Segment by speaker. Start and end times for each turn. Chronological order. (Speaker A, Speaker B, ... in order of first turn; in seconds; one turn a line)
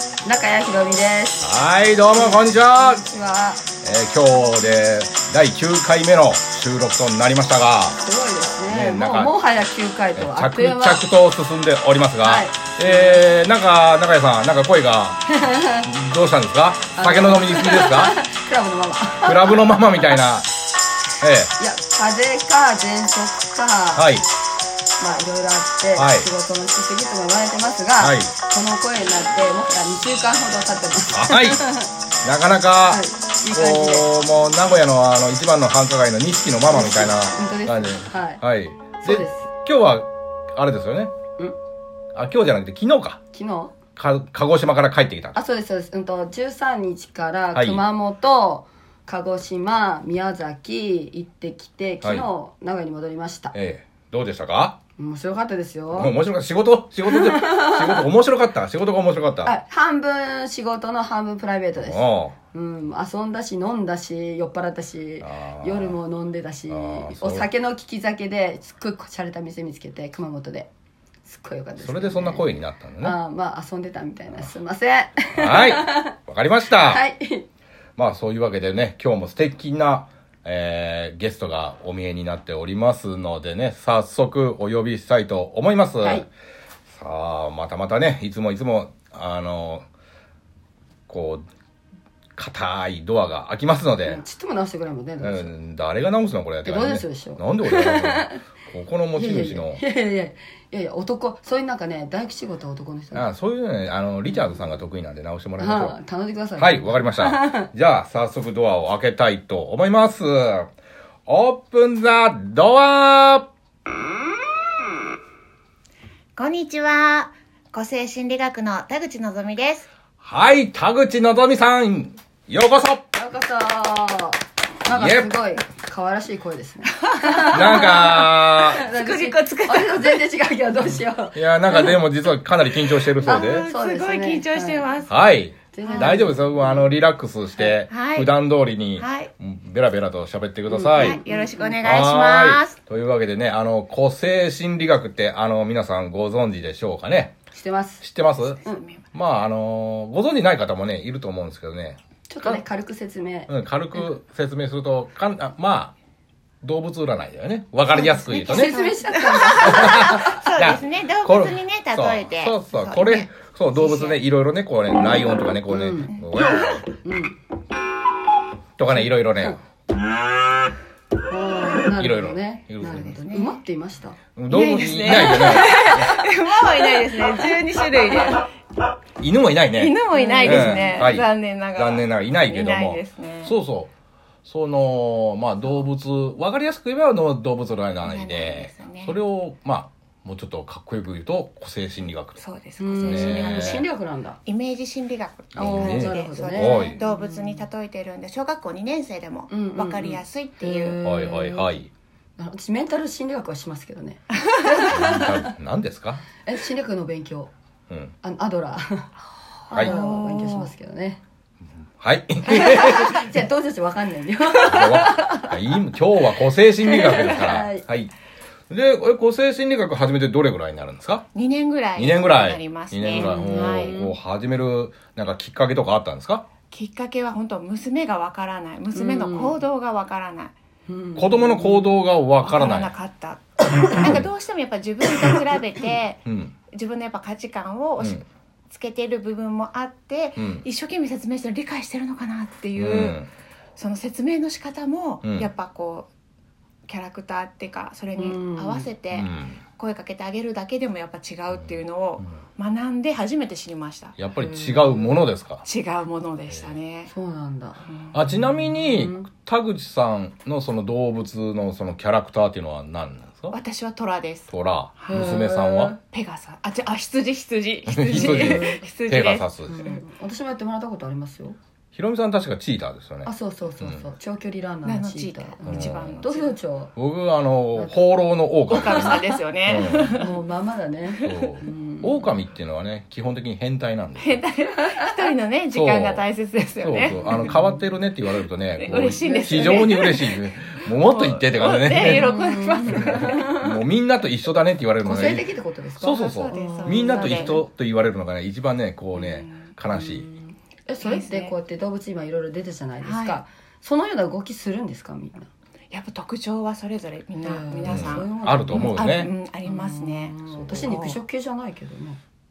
Speaker A: 0.2-1.5
Speaker B: 1.4-3.0
Speaker A: 2.1-3.6
Speaker B: 3.8-8.0
Speaker A: 8.0-11.0
Speaker B: 8.7-9.3
Speaker B: 10.2-18.2
Speaker A: 12.2-13.2
Speaker A: 15.3-15.9
Speaker A: 16.9-19.9
Speaker B: 19.2-20.5
Speaker B: 21.2-21.5
Speaker A: 21.6-24.1
Speaker B: 23.9-24.2
Speaker A: 25.0-31.9
Speaker B: 25.9-26.3
Speaker B: 28.0-28.3
Speaker B: 31.1-31.6
Speaker B: 32.2-41.1
Speaker A: 32.9-34.1
Speaker A: 36.7-38.4
Speaker A: 39.0-39.5
Speaker B: 42.1-43.2
Speaker A: 43.3-43.7
Speaker B: 44.0-45.4
Speaker A: 45.3-53.5
Speaker B: 47.5-47.8
Speaker B: 52.0-52.3
Speaker B: 53.5-54.8
Speaker A: 55.0-56.1
Speaker B: 55.9-59.5
Speaker A: 57.0-58.1
Speaker A: 59.4-62.0
Speaker B: 61.7-62.4
Speaker A: 62.5-70.7
Speaker B: 65.2-66.0
Speaker B: 66.7-67.5
Speaker A: 71.2-72.4
Speaker B: 71.8-73.2
Speaker A: 73.0-76.1
Speaker B: 75.3-77.0
Speaker A: 76.8-77.4
Speaker B: 78.0-86.2
Speaker A: 86.0-86.3
Speaker B: 86.9-89.8
Speaker B: 91.1-91.5
Speaker B: 92.3-94.2
Speaker A: 94.0-95.5
Speaker B: 95.2-99.8
Speaker A: 96.6-98.4
Speaker A: 99.1-103.3
Speaker B: 103.1-106.0
Speaker A: 104.2-104.5
Speaker A: 105.6-107.7
Speaker B: 106.6-110.7
Speaker B: 111.3-113.5
Speaker C: 116.3-119.9
Speaker B: 120.2-123.0
Speaker A: 123.1-131.9
Speaker B: 124.9-125.3
Speaker C: 127.0-130.2
Speaker B: 127.5-128.8
Speaker B: 131.3-133.7
Speaker C: 133.0-135.1
Speaker A: 133.2-134.9
Speaker B: 135.1-141.2
Speaker A: 135.7-136.9
Speaker C: 135.8-136.2
Speaker C: 137.9-138.3
Speaker C: 139.0-139.3
Speaker A: 140.7-142.0
Speaker C: 140.9-142.8
Speaker B: 141.8-147.4
Speaker A: 147.5-148.0
Speaker B: 148.0-148.6
Speaker C: 148.4-149.1
Speaker B: 149.1-152.6
Speaker A: 152.3-154.1
Speaker B: 153.5-155.9
Speaker B: 156.6-158.8
Speaker A: 157.9-160.2
Speaker C: 158.3-164.2
Speaker B: 159.6-166.8
Speaker A: 165.7-166.1
Speaker C: 166.2-166.8
Speaker A: 167.0-167.4
Speaker B: 168.8-169.6
Speaker A: 168.9-169.6
Speaker A: 171.3-174.2
Speaker B: 172.0-173.1
Speaker C: 172.8-173.6
Speaker B: 174.3-176.2
Speaker C: 174.5-178.4
Speaker B: 179.2-183.9
Speaker C: 179.7-183.6
Speaker A: 180.1-181.2
Speaker B: 184.4-192.4
Speaker C: 188.0-189.2
Speaker C: 192.4-193.9
Speaker A: 192.8-194.4
Speaker B: 193.0-193.8
Speaker C: 194.4-201.0
Speaker B: 195.5-197.0
Speaker A: 195.6-197.6
Speaker A: 199.5-201.8
Speaker B: 201.0-201.9
Speaker A: 202.4-205.5
Speaker B: 204.9-206.2
Speaker A: 206.4-207.5
Speaker B: 207.9-208.1
Speaker A: 208.2-209.1
Speaker A: 209.7-211.2
Speaker C: 209.7-210.7
Speaker B: 212.0-213.2
Speaker A: 212.5-215.5
Speaker B: 214.7-218.1
Speaker A: 216.8-217.8
Speaker B: 218.7-221.3
Speaker C: 221.3-224.0
Speaker B: 221.9-226.4
Speaker A: 223.1-224.1
Speaker C: 226.7-230.5
Speaker A: 228.9-229.6
Speaker A: 230.9-232.0
Speaker B: 231.2-232.9
Speaker C: 232.4-246.1
Speaker B: 236.2-236.5
Speaker B: 240.3-240.6
Speaker B: 242.8-243.3
Speaker B: 245.2-245.5
Speaker C: 246.9-254.2
Speaker A: 248.1-248.9
Speaker B: 249.1-249.6
Speaker B: 254.2-255.6
Speaker A: 254.3-255.3
Speaker C: 255.6-257.1
Speaker B: 256.5-256.8
Speaker A: 257.1-259.3
Speaker C: 257.8-258.2
Speaker B: 258.1-263.6
Speaker C: 263.5-265.4
Speaker B: 264.5-265.9
Speaker A: 265.1-266.0
Speaker C: 266.1-269.5
Speaker B: 267.9-269.9
Speaker A: 268.1-268.9
Speaker A: 269.6-271.6
Speaker B: 271.9-273.3
Speaker A: 273.2-276.9
Speaker C: 274.8-276.5
Speaker B: 275.6-276.2
Speaker B: 276.9-280.3
Speaker C: 278.7-280.4
Speaker A: 278.8-282.3
Speaker B: 281.2-284.4
Speaker C: 284.2-287.5
Speaker B: 285.7-286.2
Speaker B: 286.8-295.5
Speaker A: 287.0-287.8
Speaker C: 288.8-293.5
Speaker A: 288.9-290.1
Speaker A: 292.0-293.7
Speaker A: 295.0-297.6
Speaker B: 296.0-300.3
Speaker C: 296.5-297.6
Speaker C: 299.1-299.7
Speaker A: 299.9-305.5
Speaker C: 301.0-301.6
Speaker C: 303.0-303.4
Speaker C: 305.9-311.2
Speaker A: 307.4-312.2
Speaker B: 307.8-309.3
Speaker B: 310.5-310.9